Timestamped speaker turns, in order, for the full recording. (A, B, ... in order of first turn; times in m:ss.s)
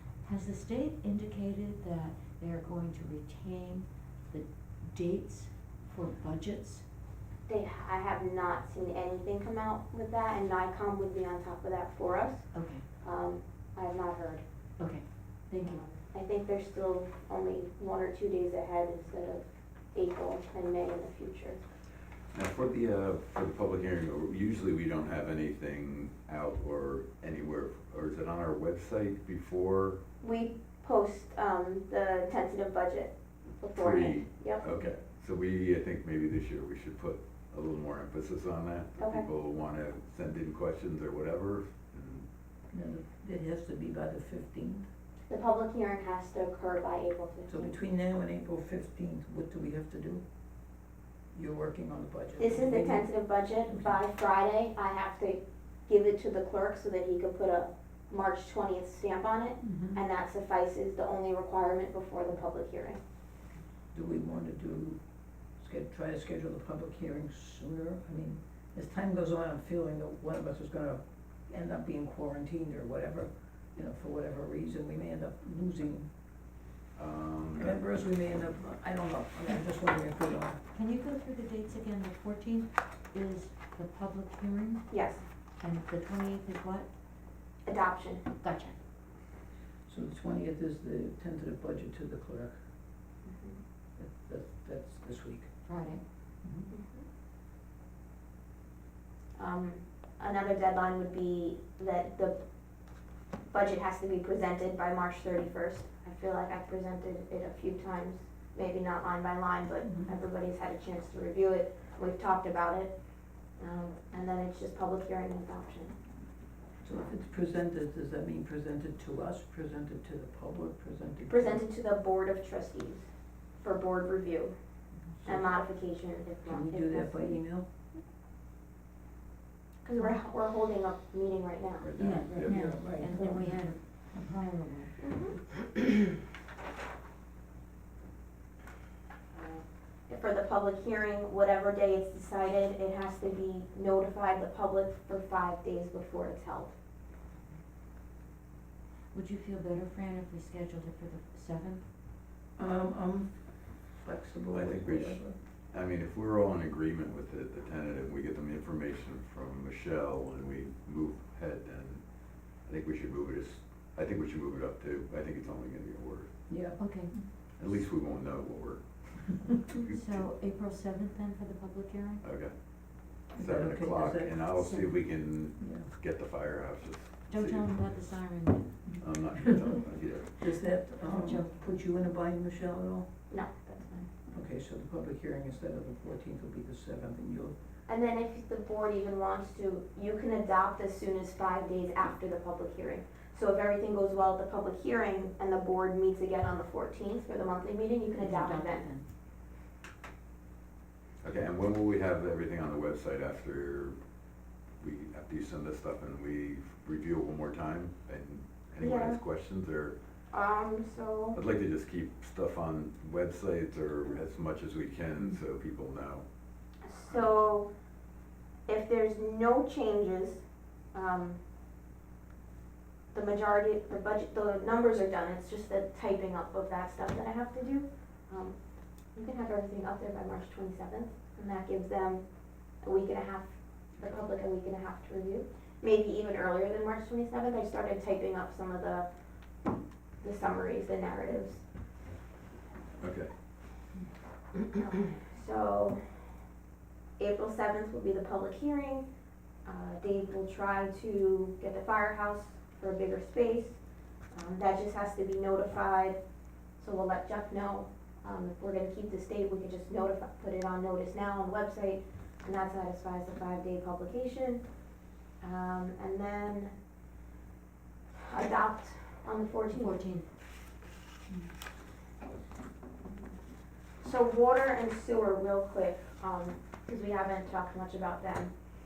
0:00.2-0:06.8 A
0:07.5-0:12.5 B
0:12.5-0:12.8 A
0:13.0-0:14.4 B
0:14.8-0:15.8 A
0:15.6-0:21.6 B
0:22.3-0:30.0 C
0:30.2-0:34.6 B
0:33.8-0:42.3 C
0:39.0-0:39.3 B
0:42.7-0:44.9 D
0:45.3-0:47.8 B
0:47.5-0:50.2 D
0:51.3-0:53.1 D
0:52.4-1:03.0 B
0:59.6-1:00.0 D
1:03.9-1:05.0 D
1:05.6-1:16.1 D
1:17.0-1:17.8 C
1:17.6-1:20.6 D
1:20.7-1:24.9 A
1:24.9-1:25.2 B
1:25.6-1:26.9 A
1:27.7-1:28.2 B
1:28.4-1:28.8 A
1:29.9-1:32.5 D
1:33.2-1:33.6 B
1:34.0-1:35.5 D
1:35.6-1:36.0 A
1:36.7-1:37.0 B
1:39.4-1:42.4 B
1:43.5-1:52.9 B
1:49.8-1:50.1 D
1:53.6-1:55.9 B
1:56.8-2:01.6 D
2:01.3-2:03.0 B
2:03.6-2:04.6 B
2:05.2-2:05.5 D
2:05.2-2:07.4 B
2:06.4-2:07.7 D
2:09.8-2:12.0 B
2:11.8-2:12.8 C
2:12.0-2:15.0 A
2:12.4-2:13.4 D
2:15.0-2:15.5 B
2:19.3-2:26.7 B
2:29.1-2:31.8 A
2:32.6-2:33.3 D
2:34.0-2:35.4 D
2:34.5-2:42.0 C
2:42.7-2:46.3 C
2:46.5-2:47.2 D
2:46.8-2:47.1 A
2:47.6-2:50.2 C
2:49.8-2:52.2 A
2:52.2-2:52.5 C
2:53.3-2:57.7 C
2:53.3-2:54.4 D
2:54.6-2:54.9 A
2:55.6-2:55.9 D
2:57.3-2:58.8 A
2:59.0-3:00.4 C
3:00.4-3:03.1 D
3:01.1-3:01.5 A
3:03.3-3:04.1 B
3:04.3-3:07.5 D
3:07.9-3:18.9 B
3:18.2-3:19.1 A
3:21.2-3:23.9 C
3:24.8-3:30.0 C
3:28.8-3:29.2 B
3:30.3-3:31.4 B
3:31.3-3:36.2 C
3:36.8-3:37.7 B
3:38.7-3:40.4 B
3:40.9-3:41.4 B
3:43.1-3:48.6 B
3:49.2-3:52.2 B
3:52.8-3:53.5 B
3:54.0-3:59.1 B
4:00.2-4:01.6 B
4:03.0-4:03.3 C
4:04.8-4:06.0 B
4:07.2-4:09.1 B
4:09.7-4:13.8 B
4:14.3-4:16.2 B
4:16.8-4:24.6 B
4:25.4-4:26.7 B
4:28.3-4:30.0 B
4:29.7-4:30.3 A
4:34.0-4:38.5 B